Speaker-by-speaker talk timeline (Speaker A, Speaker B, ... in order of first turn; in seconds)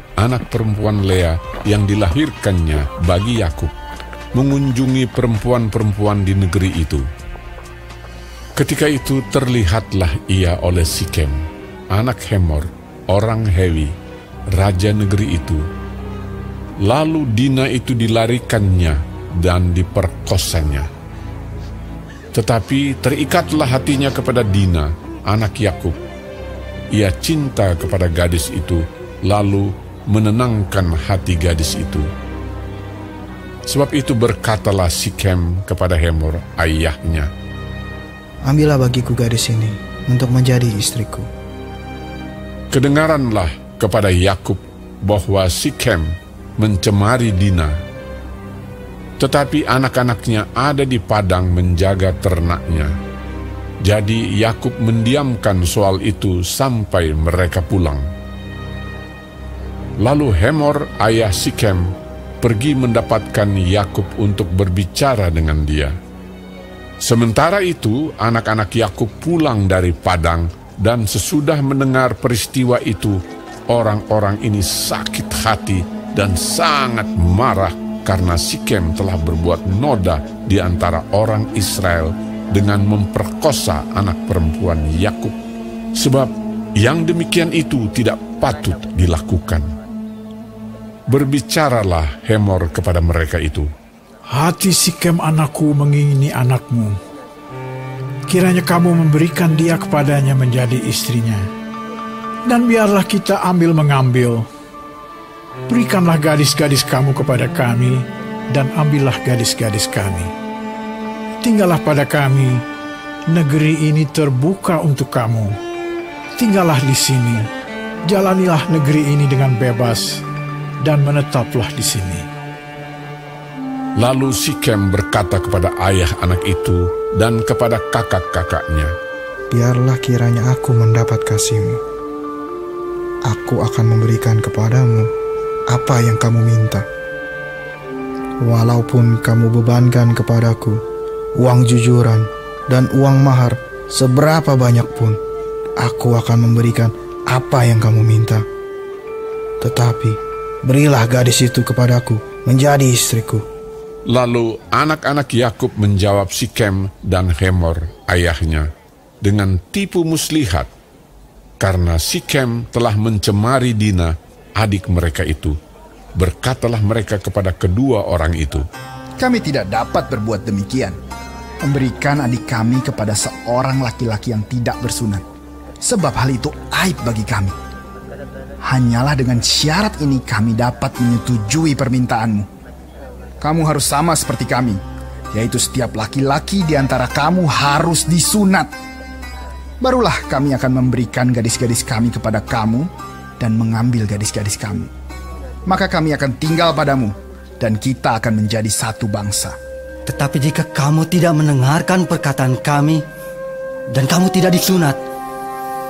Speaker A: 0.2-3.7, 4.3-7.0, 8.6-13.9, 14.5-15.6, 16.8-20.9, 22.3-25.9, 26.9-32.1, 33.7-37.3, 42.7-47.8, 49.2-52.9, 53.8-58.0, 60.0-65.9, 67.0-85.4, 85.9-89.7, 91.1-93.7, 124.0-128.9, 154.1-158.7, 159.2-160.7, 161.6-165.6, 166.2-168.7
Speaker B: 38.5-41.2, 129.5-131.8, 133.3-135.1, 135.7-136.8, 138.4-140.8, 141.4-145.2, 145.8-148.4, 149.6-153.4
Speaker C: 94.3-97.0, 98.3-101.5, 102.5-104.5, 105.7-110.3, 111.4-112.6, 113.3-115.5, 116.4-117.5, 118.1-120.2, 120.8-122.3
Speaker D: 169.2-170.9, 171.6-175.2, 175.8-177.5, 178.6-182.5, 183.4-184.8, 185.3-188.7, 189.8-194.9, 195.7-199.6
Speaker E: 200.1-203.1, 203.9-205.0